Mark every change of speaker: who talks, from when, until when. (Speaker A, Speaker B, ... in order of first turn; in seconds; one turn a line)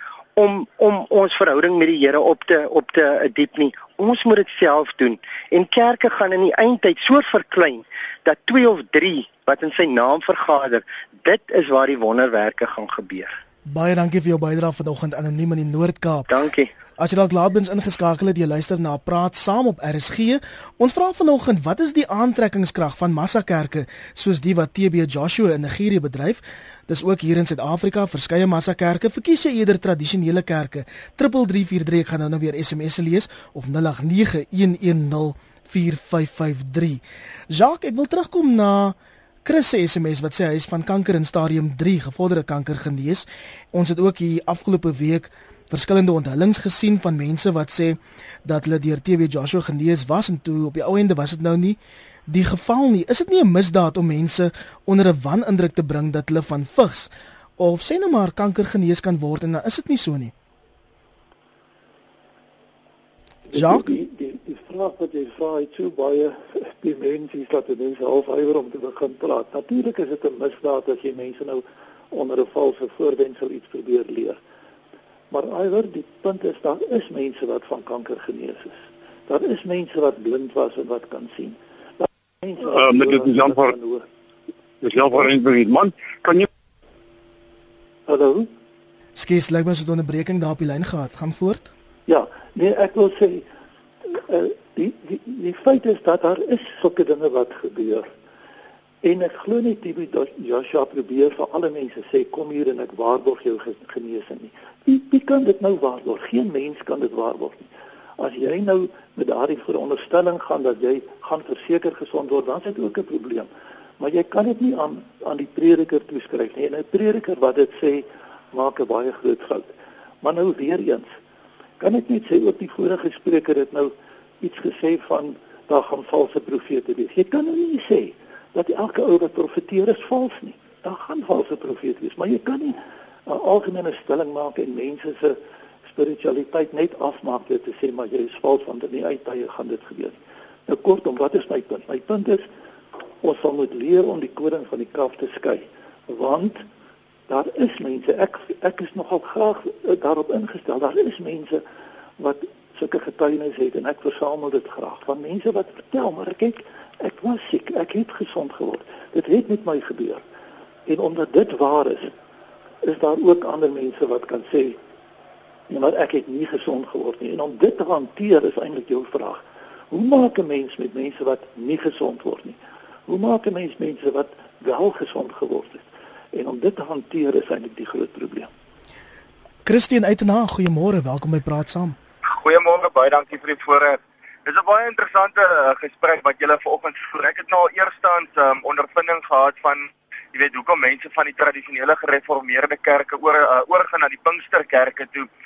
Speaker A: 0.4-13.4
Speaker B: 13.7-16.3
Speaker A: 16.3-16.7
Speaker B: 17.0-60.3
Speaker C: 63.5-74.4
Speaker B: 63.5-63.9
Speaker C: 75.3-84.1
Speaker D: 82.7-83.7
Speaker D: 84.8-86.5
Speaker C: 88.1-88.5
Speaker B: 89.2-91.7
Speaker C: 92.1-93.5
Speaker C: 94.1-98.1
Speaker C: 99.0-119.7
Speaker C: 120.2-121.1
Speaker C: 121.8-142.5
Speaker C: 143.2-146.6
Speaker C: 147.3-151.6
Speaker C: 152.2-160.2
Speaker C: 160.9-162.1
Speaker C: 162.8-164.8
Speaker C: 165.7-178.5
Speaker B: 179.7-182.0
Speaker E: 182.3-195.3